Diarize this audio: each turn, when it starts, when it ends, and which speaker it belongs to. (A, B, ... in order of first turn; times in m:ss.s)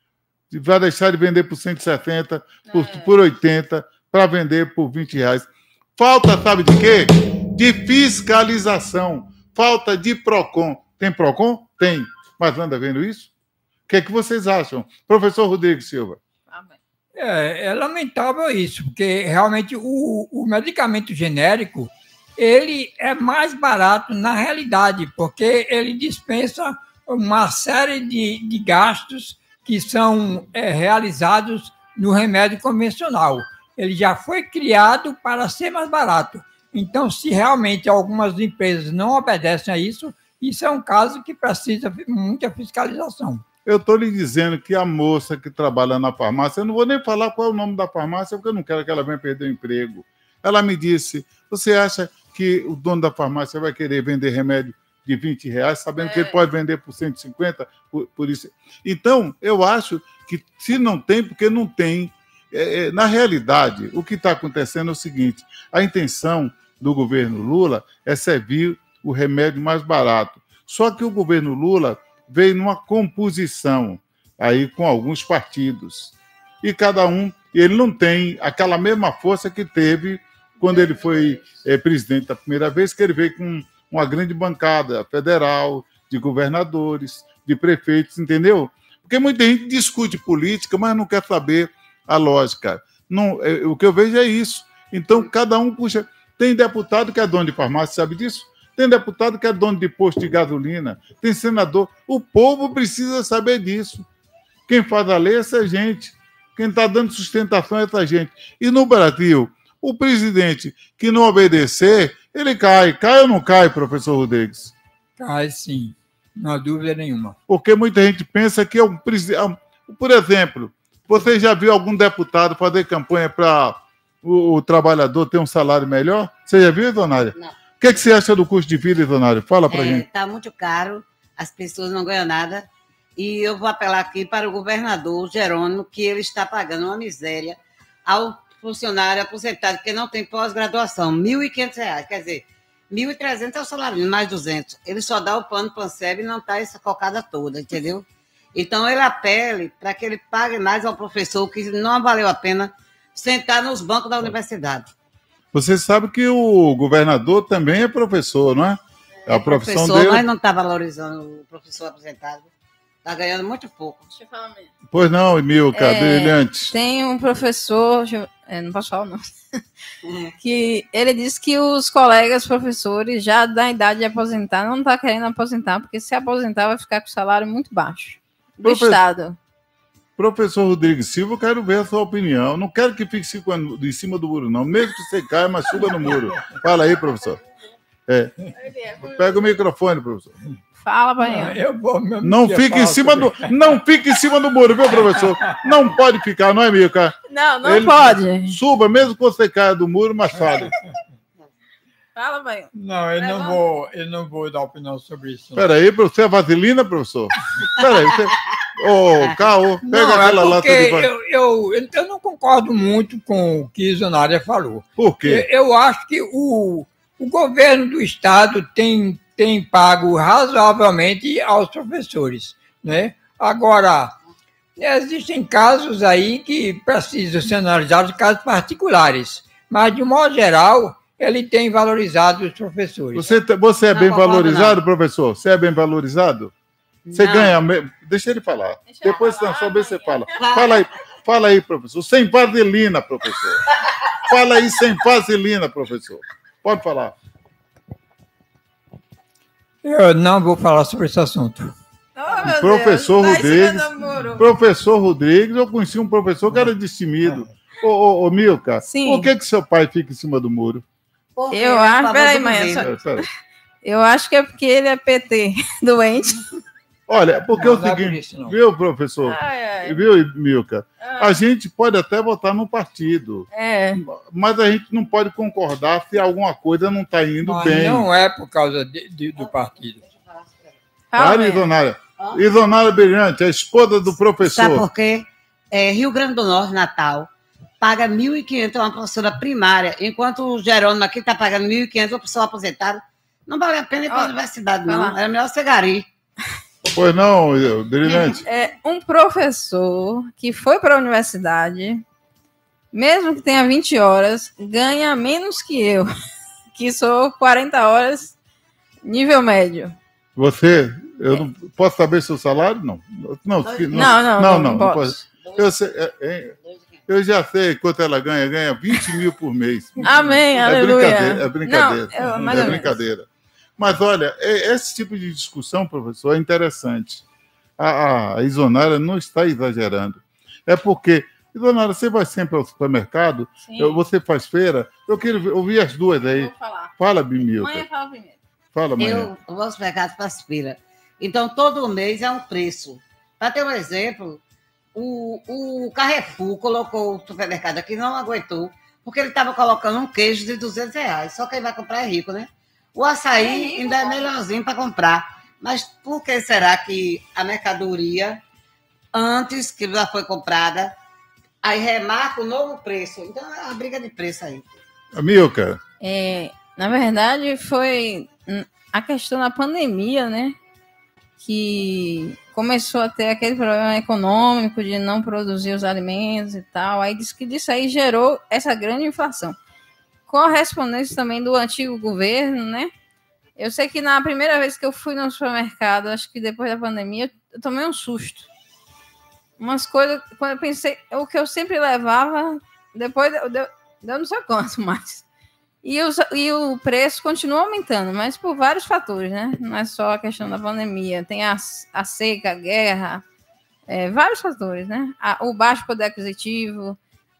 0:00.5-0:13.3 A
0:02.6-0:03.1 B
0:13.9-0:16.2 A
0:16.5-0:16.8 B
0:17.2-0:43.4 C
0:43.6-1:44.0 A
0:56.0-0:56.3 B
1:20.6-1:21.4 B
1:44.7-1:54.7 A
1:55.2-1:57.4 C
1:57.5-2:10.0 A
2:09.7-2:34.9 D
2:35.5-2:40.2 A
2:39.3-2:42.5 D
2:43.0-2:44.1 D
2:44.1-2:44.7 B
2:44.9-2:46.7 A
2:45.7-2:49.6 B
2:50.0-2:50.3 D
2:50.4-2:59.4 B
2:58.6-2:59.0 A
3:00.2-3:07.4 A
3:08.1-3:08.3 A
3:08.5-3:09.5 B
3:09.0-3:10.3 A
3:10.8-3:11.6 B
3:11.2-3:13.5 C
3:12.2-3:20.7 A
3:15.0-3:15.5 C
3:17.3-3:18.6 B
3:22.1-3:23.6 B
3:22.7-3:25.6 C
3:25.6-3:31.1 A
3:29.8-3:44.1 C
3:35.0-3:35.4 A
3:44.8-3:53.4 C
3:53.1-3:56.5 A
3:53.9-3:54.8 D
3:57.1-3:57.5 D
3:57.1-4:03.6 A
3:58.8-4:00.2 B
4:00.4-4:00.8 D
4:04.2-4:07.1 A
4:09.8-4:11.7 C
4:12.1-4:14.5 B
4:12.4-4:20.8 A
4:18.8-4:19.3 B
4:21.3-4:22.9 D
4:21.5-4:23.2 B
4:22.8-4:23.2 A
4:23.8-4:26.4 B
4:27.1-4:38.1 A
4:27.5-4:28.6 C
4:29.2-4:30.0 B
4:31.0-4:31.4 B
4:33.5-4:34.0 B
4:37.4-4:40.0 C
4:39.4-4:40.8 D
4:41.1-4:41.6 B
4:41.2-4:44.8 A
4:44.4-4:47.3 D
4:47.8-4:56.1 D
4:54.1-4:54.3 B
4:54.8-4:55.2 B
4:56.9-4:58.4 A
4:58.4-5:02.0 B
5:02.9-5:06.1 B
5:06.7-5:08.4 B
5:09.0-5:10.0 B
5:10.4-5:16.5 A
5:13.6-5:14.2 D
5:13.9-5:15.2 B
5:15.4-5:15.7 D
5:16.6-5:17.0 D
5:17.1-5:23.2 A
5:20.0-5:22.9 B
5:22.2-5:22.8 C
5:23.8-5:27.2 A
5:27.8-5:37.8 A
5:33.6-5:34.0 B
5:36.2-5:38.4 B
5:38.7-5:39.3 A
5:39.0-5:44.4 D
5:44.9-5:58.4 D
5:53.4-5:53.9 B
5:59.1-6:00.9 D
6:01.6-6:04.7 D
6:05.1-6:05.8 A
6:06.0-6:10.6 B
6:11.4-6:19.6 B
6:20.3-6:22.9 B
6:23.6-6:28.5 B
6:29.6-6:35.2 B
6:35.8-6:43.2 B
6:43.9-6:47.0 B